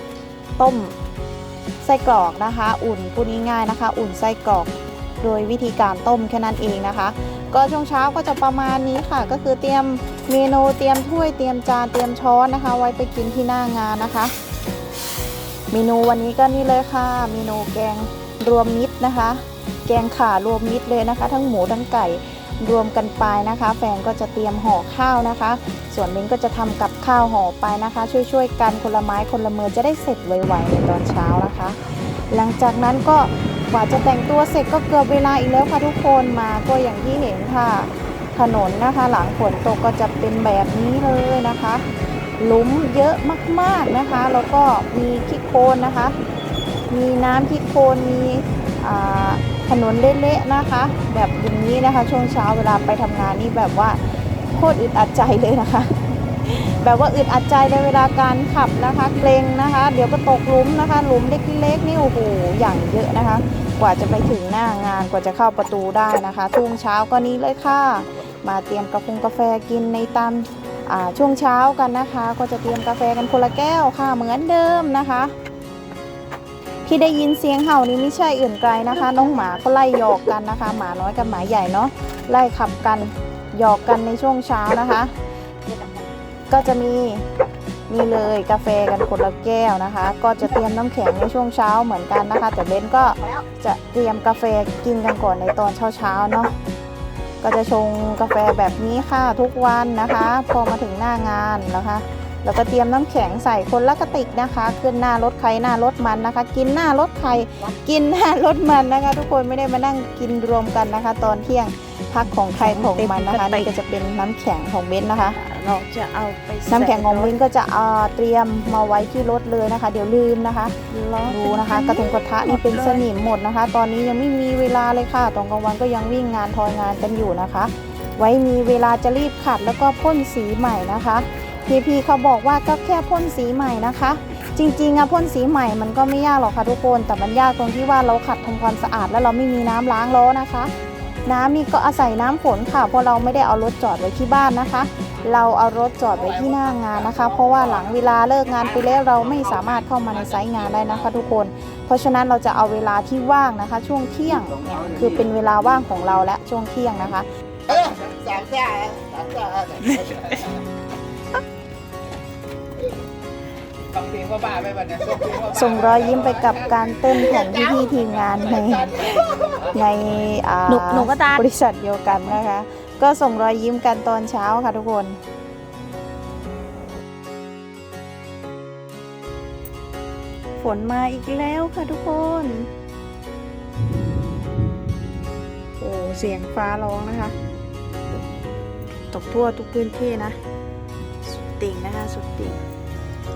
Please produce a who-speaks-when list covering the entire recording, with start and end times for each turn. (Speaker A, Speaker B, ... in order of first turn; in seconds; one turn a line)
Speaker A: 0.6-0.9
Speaker A: 1.8-14.3
Speaker A: 15.7-46.1
Speaker A: 46.9-75.3
Speaker A: 76.8-85.1
Speaker A: 86.5-87.3
Speaker A: 87.9-96.5
Speaker A: 97.4-115.4
Speaker B: 112.5-113.7
Speaker B: 115.3-117.3
Speaker A: 116.7-140.7
Speaker B: 120.9-123.0
Speaker A: 141.2-157.9
Speaker C: 158.1-159.7
Speaker C: 164.0-165.3
Speaker A: 165.4-175.2
Speaker B: 170.7-171.4
Speaker A: 180.6-182.7
Speaker A: 185.8-187.3
Speaker A: 189.1-190.3
Speaker A: 191.4-192.6